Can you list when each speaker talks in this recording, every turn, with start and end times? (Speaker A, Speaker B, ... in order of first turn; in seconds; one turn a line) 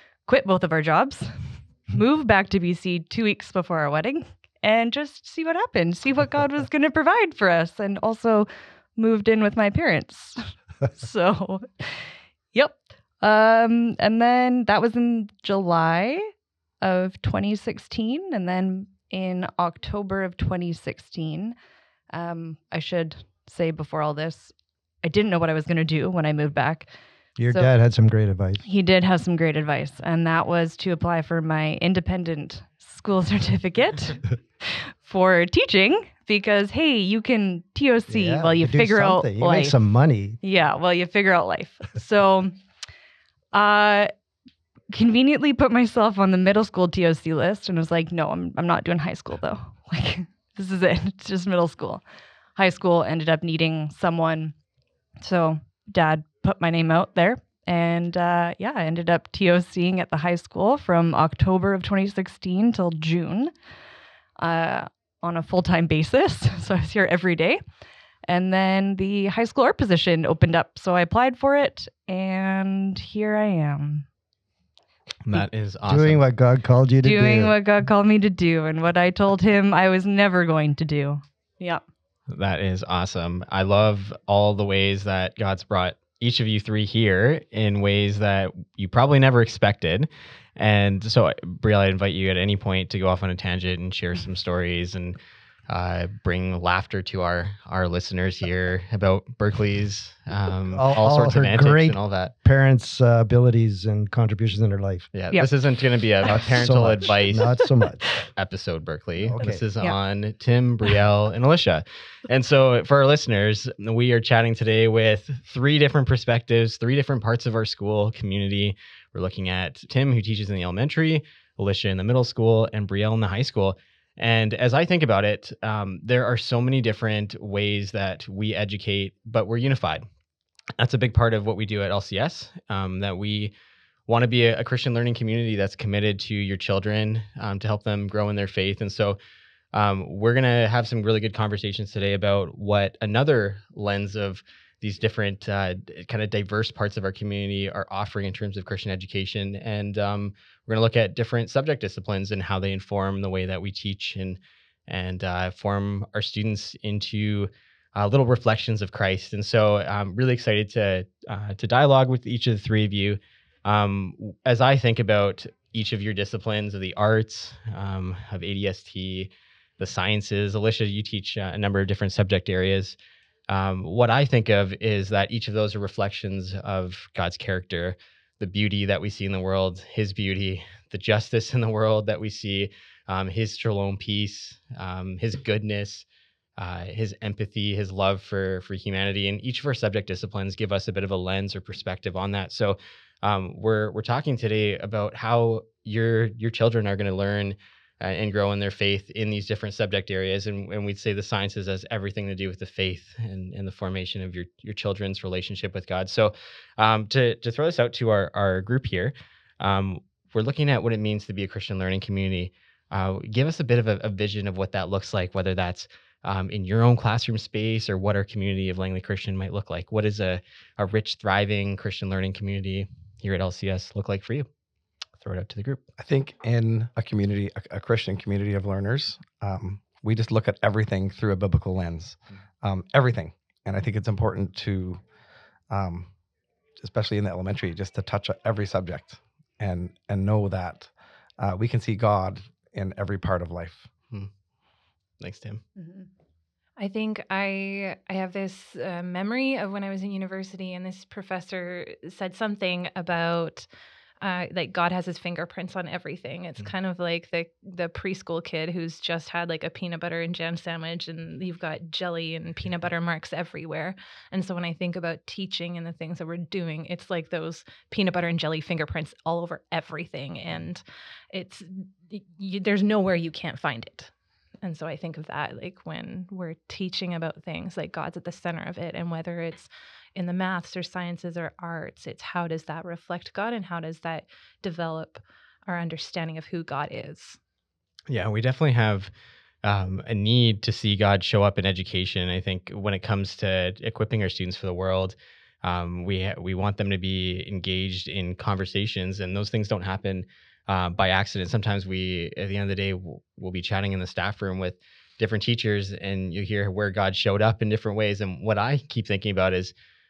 Speaker A: 0.2-16.3
Speaker A: 16.8-21.5
Speaker A: 22.1-26.9
Speaker B: 27.4-28.6
Speaker A: 28.6-39.8
Speaker B: 38.1-40.4
Speaker A: 40.4-42.5
Speaker A: 43.5-44.1
Speaker A: 44.9-52.0
Speaker A: 52.5-54.5
Speaker A: 55.2-63.5
Speaker A: 64.4-67.6
Speaker A: 68.3-74.0
Speaker C: 75.2-76.2
Speaker B: 75.9-77.5
Speaker A: 77.0-81.8
Speaker C: 82.3-95.2
Speaker C: 95.7-102.3
Speaker B: 100.7-105.1
Speaker C: 105.1-107.5
Speaker B: 106.2-108.0
Speaker C: 108.3-130.1
Speaker B: 109.2-109.6
Speaker C: 130.8-133.5
Speaker C: 134.1-139.2
Speaker C: 139.7-173.0
Speaker C: 173.5-186.1
Speaker C: 186.6-224.5
Speaker C: 225.2-225.8
Speaker D: 226.0-235.0
Speaker D: 235.7-236.1
Speaker D: 236.8-243.9
Speaker C: 245.2-245.6
Speaker A: 245.8-246.0
Speaker E: 246.8-253.7
Speaker E: 254.2-287.4
Speaker C: 288.1-289.1
Speaker C: 289.6-309.7